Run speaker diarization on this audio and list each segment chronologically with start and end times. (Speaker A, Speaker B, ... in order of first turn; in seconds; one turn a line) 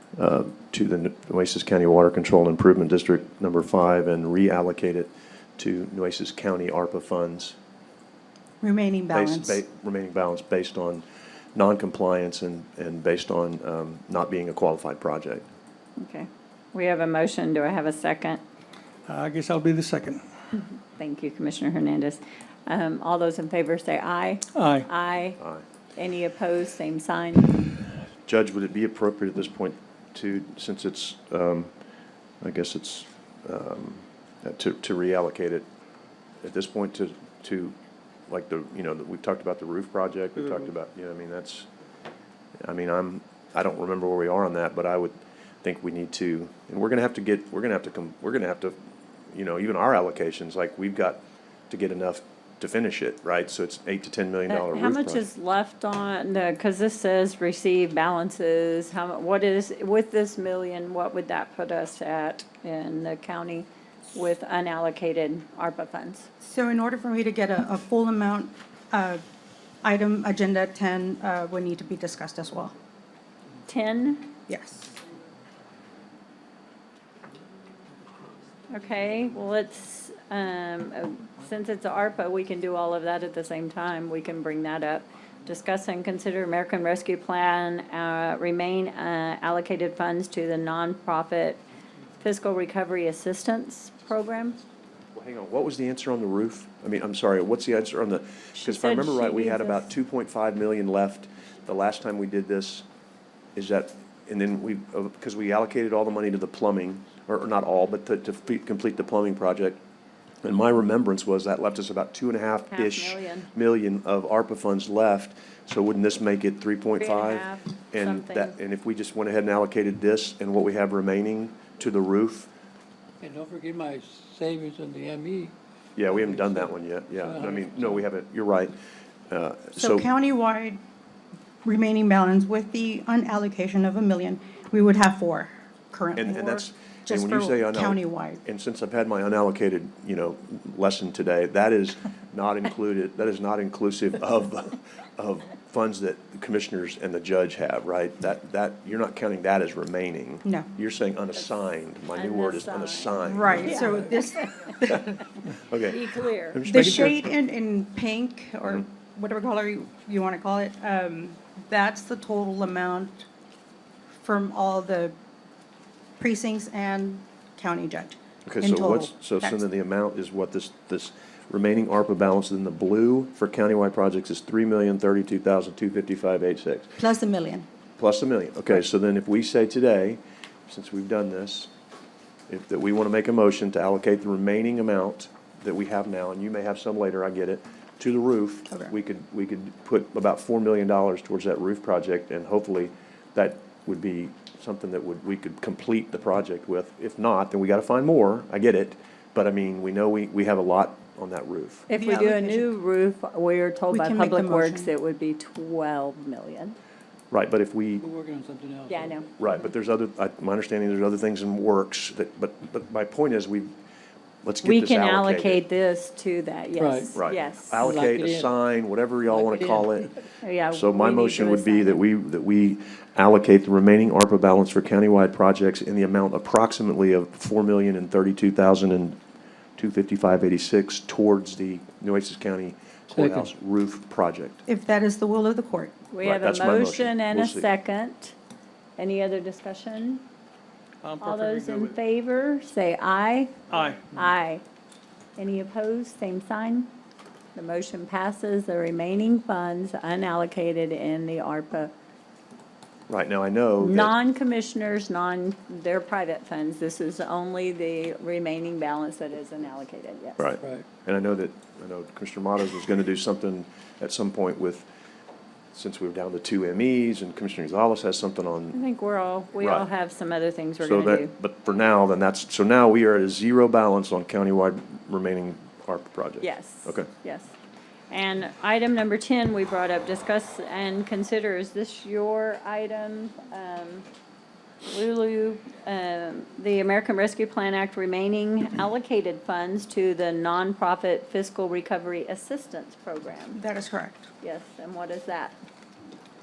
Speaker A: 0.2-7.6
Speaker B: 8.6-9.6
Speaker A: 9.1-11.0
Speaker A: 11.6-15.5
Speaker C: 16.0-18.4
Speaker D: 19.1-20.3
Speaker C: 20.6-25.4
Speaker D: 24.5-24.9
Speaker C: 26.0-27.7
Speaker A: 28.3-31.7
Speaker A: 32.4-35.7
Speaker A: 36.4-37.8
Speaker A: 38.3-41.7
Speaker A: 42.6-48.8
Speaker A: 49.3-55.3
Speaker C: 54.5-66.3
Speaker B: 66.4-69.2
Speaker B: 69.8-72.7
Speaker C: 73.7-74.3
Speaker B: 74.5-74.9
Speaker C: 78.7-91.6
Speaker C: 92.2-94.6
Speaker A: 95.1-102.9
Speaker C: 98.6-99.9
Speaker A: 103.6-109.8
Speaker A: 110.4-122.5
Speaker C: 112.7-113.5
Speaker C: 117.0-118.5
Speaker E: 123.2-125.5
Speaker A: 126.0-128.8
Speaker E: 126.1-128.1
Speaker A: 129.3-130.1
Speaker B: 129.8-130.8
Speaker B: 131.6-138.4
Speaker A: 136.2-153.8
Speaker C: 152.1-154.2
Speaker B: 153.2-155.2
Speaker A: 155.7-157.2
Speaker C: 155.9-156.6
Speaker B: 156.7-163.3
Speaker B: 164.2-165.1
Speaker B: 166.2-169.6
Speaker A: 168.5-177.0
Speaker B: 177.0-177.7
Speaker A: 178.0-181.7
Speaker A: 182.5-201.9
Speaker C: 201.9-206.8
Speaker B: 201.9-202.7
Speaker B: 203.9-204.9
Speaker A: 207.3-208.0
Speaker E: 208.0-209.2
Speaker C: 208.9-209.3
Speaker A: 209.4-213.7
Speaker A: 214.4-215.6
Speaker C: 214.6-217.9
Speaker E: 216.8-217.1
Speaker A: 217.2-220.2
Speaker E: 217.8-218.5
Speaker E: 219.3-220.0
Speaker C: 220.4-222.0
Speaker A: 220.7-229.2
Speaker A: 229.8-234.6
Speaker E: 233.1-233.5
Speaker B: 234.7-235.9
Speaker C: 236.1-238.3
Speaker A: 236.2-237.7
Speaker C: 239.0-240.2
Speaker D: 241.0-241.9
Speaker C: 241.2-244.6
Speaker D: 243.7-244.1
Speaker C: 245.4-246.9
Speaker C: 247.6-251.9
Speaker A: 253.1-254.1
Speaker C: 253.8-260.5
Speaker A: 260.4-264.9
Speaker A: 265.7-268.8
Speaker C: 268.7-271.3
Speaker A: 269.6-269.9
Speaker A: 270.8-277.1
Speaker C: 276.4-277.5
Speaker C: 278.1-284.1
Speaker C: 284.8-293.6
Speaker B: 293.5-294.3
Speaker C: 294.4-295.6